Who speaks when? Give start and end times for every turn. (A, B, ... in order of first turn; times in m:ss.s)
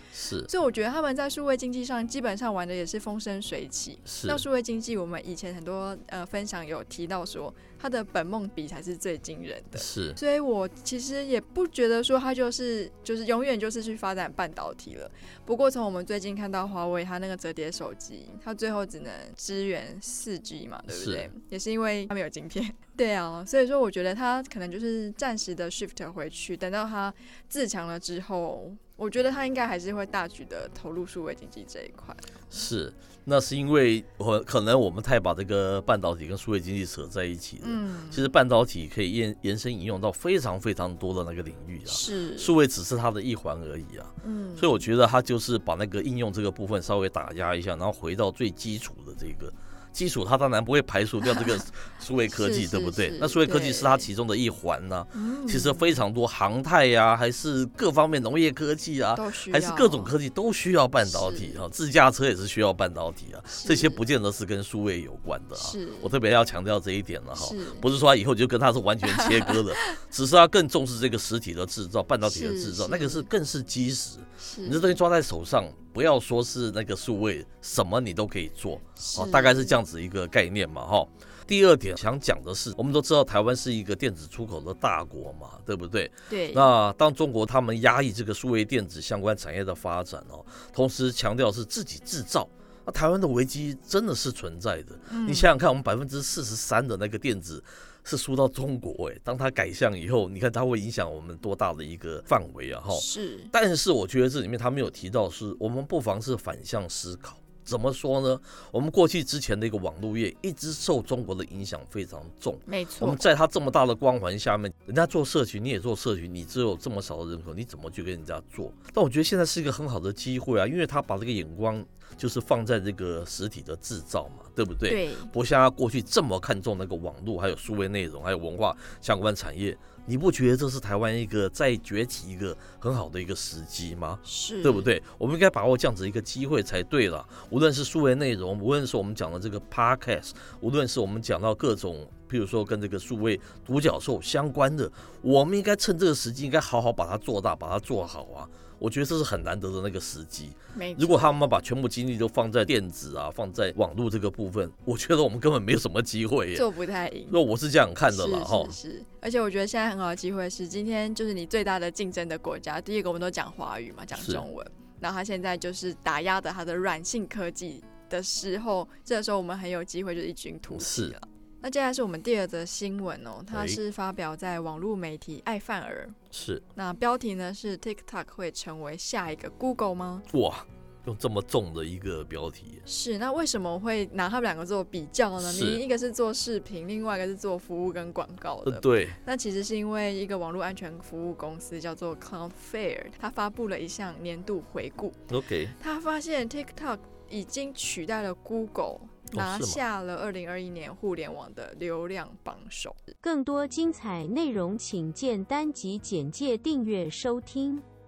0:00.1-0:00.5 A
0:00.5-0:32.3 B
0:04.0-0:04.4 A
0:09.8-0:10.2 A
0:20.9-0:21.3 A
0:32.5-2:36.6 A
0:37.6-0:38.3 B
0:41.9-0:42.5 B
0:44.2-0:44.8 B
0:51.3-0:51.6 B
0:52.3-0:54.1 B
0:55.1-0:56.0 B
0:59.1-1:00.1 B
1:01.0-1:01.6 B
1:03.5-1:04.0 B
1:05.5-1:06.1 B
1:07.3-1:07.8 B
1:09.0-1:09.8 B
1:12.2-1:13.3 B
1:14.4-1:14.9 B
1:19.0-1:19.8 B
1:26.3-1:26.7 B
1:35.1-1:35.5 B
1:42.9-1:43.5 B
1:52.7-1:53.2 B
2:04.9-2:05.3 B
2:14.2-2:14.9 B
2:30.7-2:31.4 B
2:36.5-2:37.4 B
2:37.3-2:38.7 A
2:38.1-2:56.1 B
2:44.2-2:44.4 A
2:50.7-2:51.1 A
2:53.5-2:53.8 A
2:56.3-2:56.6 A
2:56.7-3:00.3 B
3:00.3-3:02.8 A
3:02.8-3:15.2 B
3:05.4-3:05.8 A
3:08.6-3:09.2 A
3:15.3-3:15.7 A
3:15.8-3:23.1 B
3:19.3-3:19.8 A
3:23.2-3:27.8 C